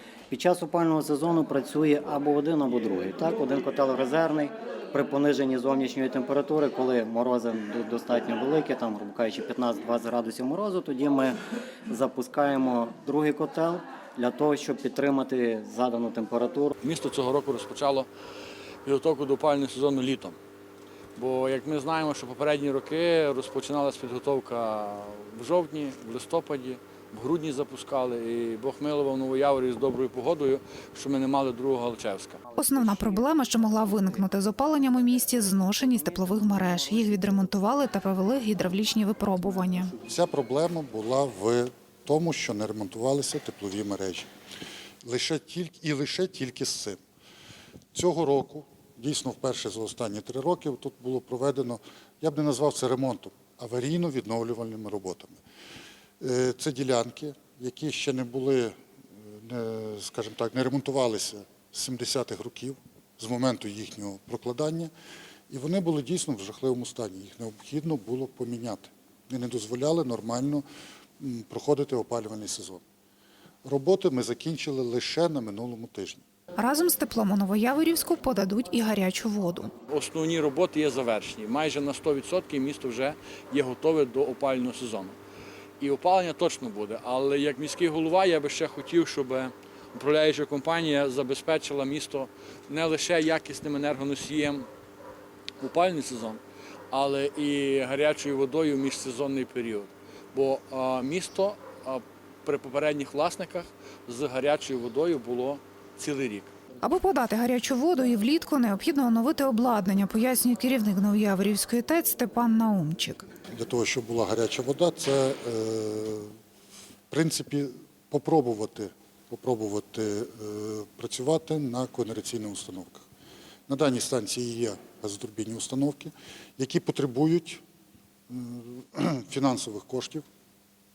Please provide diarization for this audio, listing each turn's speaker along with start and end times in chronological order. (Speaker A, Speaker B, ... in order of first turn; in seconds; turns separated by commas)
Speaker A: 0.3-16.7, Speaker B: 16.8-18.1, Speaker B: 18.8-20.4, Speaker B: 21.2-32.4, Speaker C: 32.6-39.9, Speaker D: 40.0-44.3, Speaker D: 45.0-47.0, Speaker D: 47.9-55.4, Speaker D: 56.2-64.9, Speaker D: 65.5-70.7, Speaker D: 71.2-72.8, Speaker D: 73.7-76.2, Speaker C: 76.6-79.7, Speaker B: 79.9-85.2, Speaker B: 85.8-94.7, Speaker B: 95.6-106.5, Speaker C: 106.8-113.3, Speaker D: 113.5-116.3, Speaker D: 117.1-123.0, Speaker D: 123.7-127.6, Speaker D: 128.3-130.2